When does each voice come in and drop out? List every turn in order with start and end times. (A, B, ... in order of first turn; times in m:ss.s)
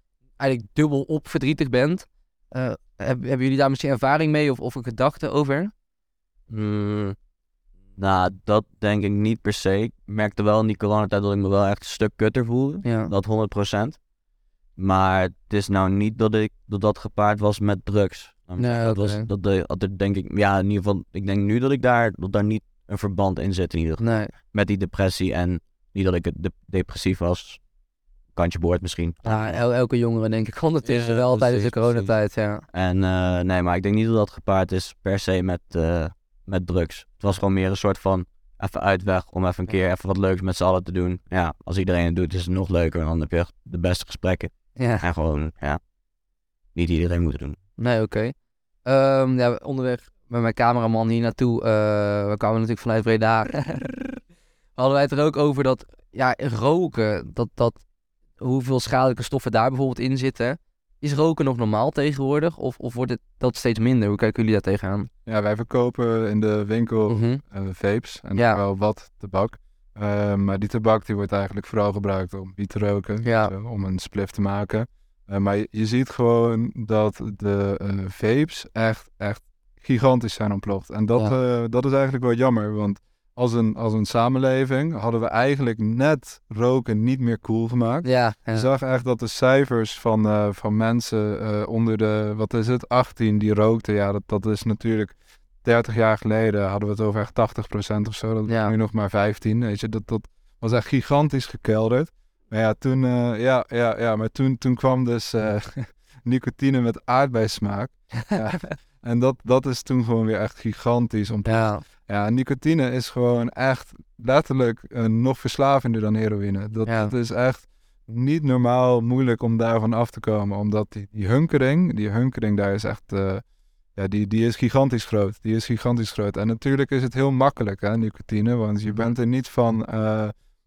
0:00.4-0:05.7 A
0:06.5-0:07.2 B
0:08.0-0:14.0 B
0:12.8-0:13.1 A
0:14.8-0:27.6 B
0:18.6-0:19.3 A
0:24.0-0:24.3 A
0:28.4-0:29.6 B
0:29.2-0:32.6 A
0:30.8-0:32.2 B
0:32.7-0:45.8 B
0:44.8-0:45.0 A
0:46.8-0:47.6 B
0:47.8-0:48.3 A
0:48.8-0:53.9 A
0:54.8-0:57.8 A
0:58.4-1:05.1 A
1:05.3-2:03.4 C
1:07.1-1:07.4 A
1:13.2-1:13.5 A
1:28.0-1:28.7 A
1:38.5-1:38.7 A
1:51.5-1:51.8 A
1:56.9-1:57.1 A
2:04.0-2:10.3 C